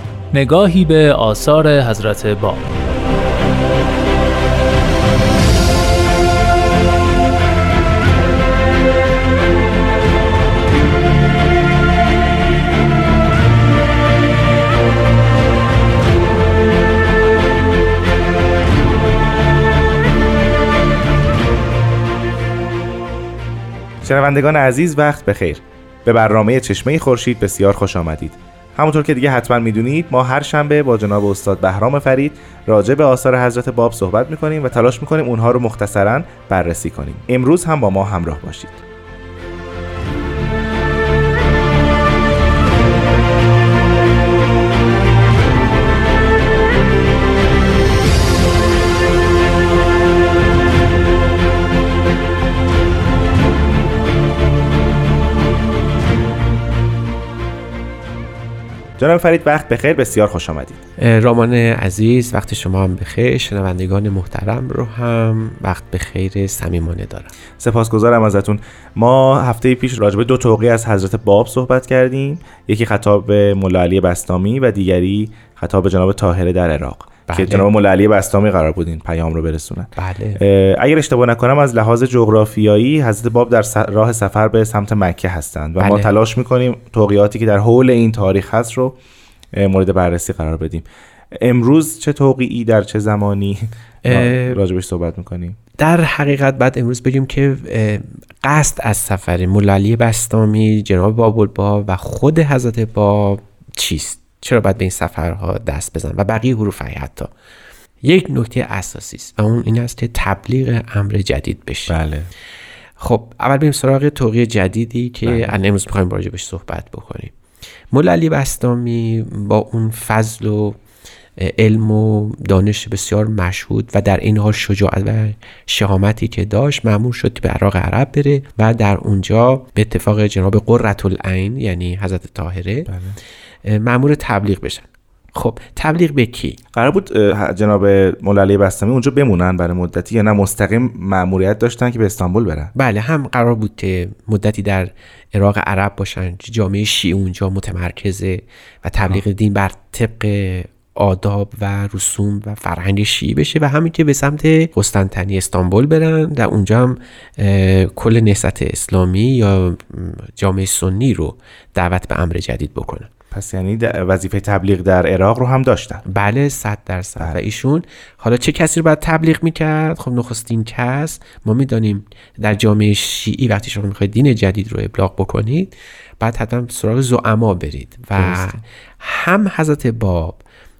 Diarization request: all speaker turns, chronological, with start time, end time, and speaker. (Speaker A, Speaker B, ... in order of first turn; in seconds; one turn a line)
Speaker A: 0.3-2.6
Speaker B: 24.0-38.8
Speaker B: 59.0-60.8
Speaker C: 61.0-67.3
Speaker B: 67.6-89.0
Speaker C: 77.3-77.7
Speaker C: 80.0-80.4
Speaker C: 85.8-86.1
Speaker B: 89.5-95.6
Speaker C: 94.0-94.6
Speaker C: 95.8-107.3
Speaker C: 108.0-111.9
Speaker B: 111.9-112.3
Speaker C: 113.0-117.3
Speaker B: 115.2-115.5
Speaker C: 117.9-120.8
Speaker C: 121.4-132.9
Speaker B: 132.9-133.2
Speaker C: 133.6-136.6
Speaker B: 136.7-142.7
Speaker C: 142.7-163.1
Speaker B: 163.3-166.0
Speaker C: 166.1-180.4
Speaker B: 178.2-178.6